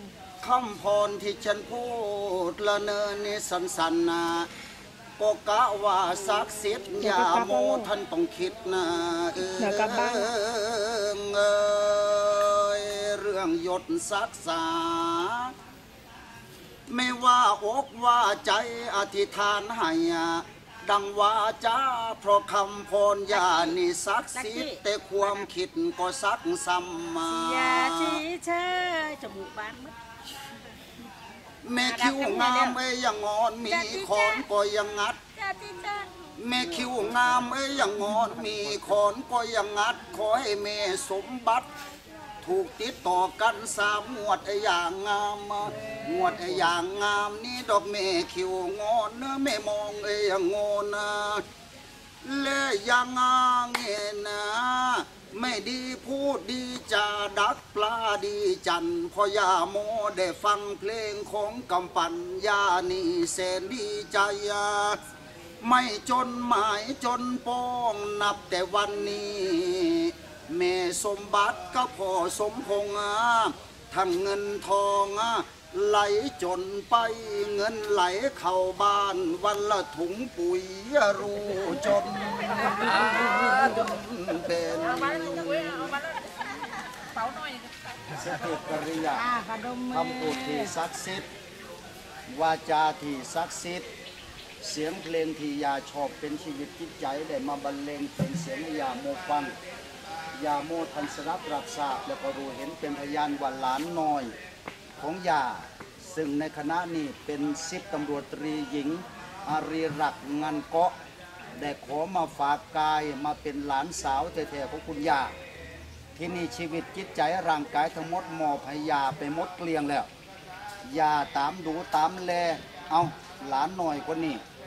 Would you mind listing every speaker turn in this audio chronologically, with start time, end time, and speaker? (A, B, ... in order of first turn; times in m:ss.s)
0:00.4-0:04.5 A
0:05.2-0:15.5 A
0:07.0-0:07.9 B
0:09.6-0:10.3 B
0:16.9-0:28.2 A
0:23.3-0:23.8 C
0:24.3-0:24.8 C
0:27.2-0:29.9 C
0:31.6-0:35.2 A
0:31.8-0:32.8 C
0:33.6-0:34.4 C
0:35.3-0:36.1 C
0:36.4-0:41.7 A
0:42.4-0:51.4 A
0:52.2-1:05.0 A
1:05.6-1:26.0 A
1:22.9-1:23.2 B
1:25.1-1:26.4 C
1:27.2-1:27.6 B
1:28.1-1:29.3 A
1:29.1-1:30.7 C
1:29.9-1:31.3 A
1:32.3-1:33.8 A
1:34.6-1:39.5 A
1:40.4-1:44.3 A
1:45.0-1:50.9 A
1:51.6-1:55.3 A
1:56.2-2:00.1 A
2:00.8-2:04.4 A